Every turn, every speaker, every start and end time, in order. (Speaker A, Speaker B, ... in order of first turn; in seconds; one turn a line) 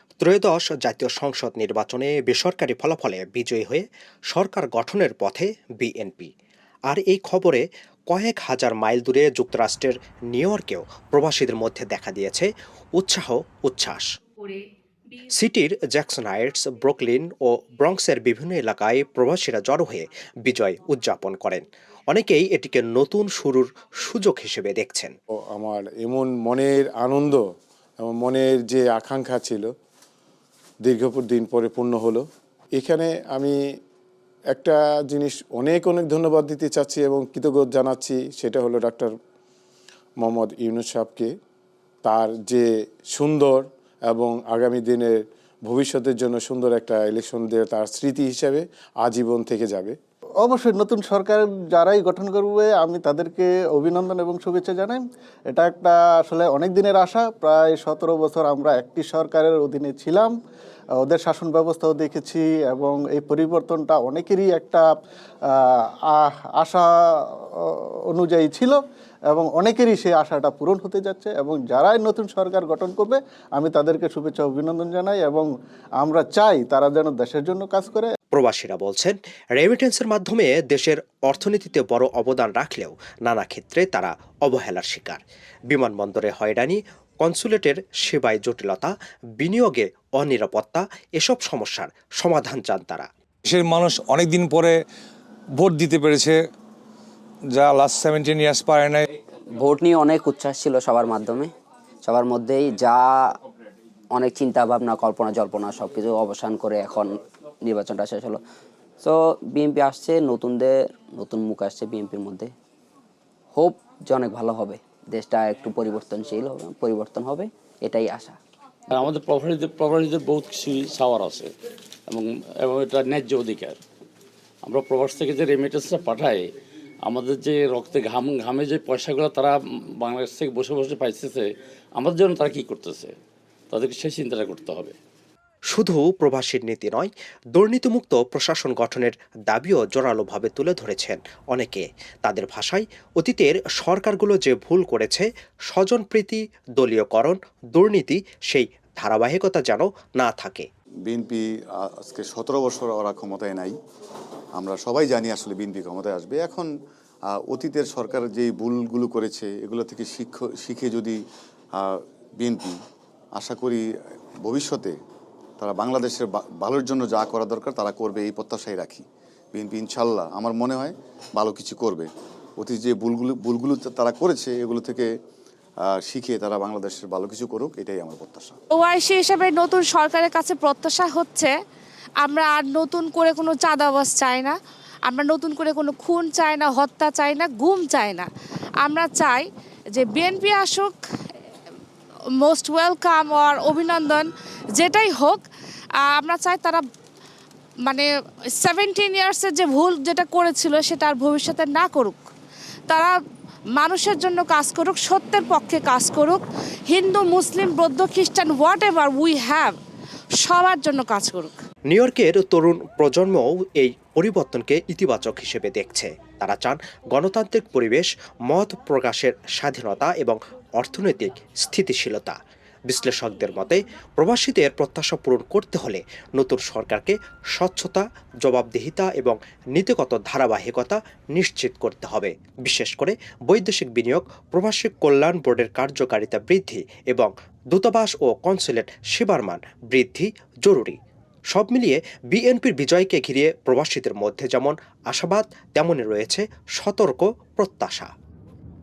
Speaker A: 0.2-6.3
Speaker A: 6.9-14.1
Speaker A: 15.3-25.1
Speaker B: 25.5-27.4
Speaker B: 28.0-29.7
Speaker B: 30.8-32.2
Speaker B: 32.8-33.5
Speaker B: 34.5-39.1
Speaker B: 40.2-41.3
Speaker B: 42.0-50.0
Speaker C: 50.4-60.3
Speaker C: 61.0-64.9
Speaker C: 65.5-68.8
Speaker C: 69.3-78.1
Speaker A: 78.3-93.1
Speaker D: 93.4-94.8
Speaker D: 95.5-96.5
Speaker D: 97.5-99.0
Speaker E: 99.6-101.5
Speaker E: 102.0-103.4
Speaker E: 104.1-108.4
Speaker E: 109.0-112.5
Speaker E: 113.5-118.4
Speaker F: 118.9-121.5
Speaker F: 122.1-123.8
Speaker F: 124.6-126.4
Speaker F: 127.0-133.1
Speaker F: 133.7-134.9
Speaker A: 135.7-150.7
Speaker G: 151.1-153.8
Speaker G: 154.6-156.7
Speaker G: 157.3-161.2
Speaker G: 161.7-162.8
Speaker G: 163.3-163.8
Speaker G: 164.4-164.9
Speaker G: 165.6-175.1
Speaker G: 175.9-178.6
Speaker H: 178.7-181.5
Speaker H: 182.2-184.6
Speaker H: 185.1-188.3
Speaker H: 188.8-191.4
Speaker H: 192.4-195.4
Speaker H: 196.0-196.8
Speaker H: 198.6-202.2
Speaker H: 202.9-203.1
Speaker H: 203.8-209.8
Speaker H: 210.4-211.6
Speaker A: 211.9-222.3
Speaker A: 222.9-241.0
Speaker A: 241.5-248.1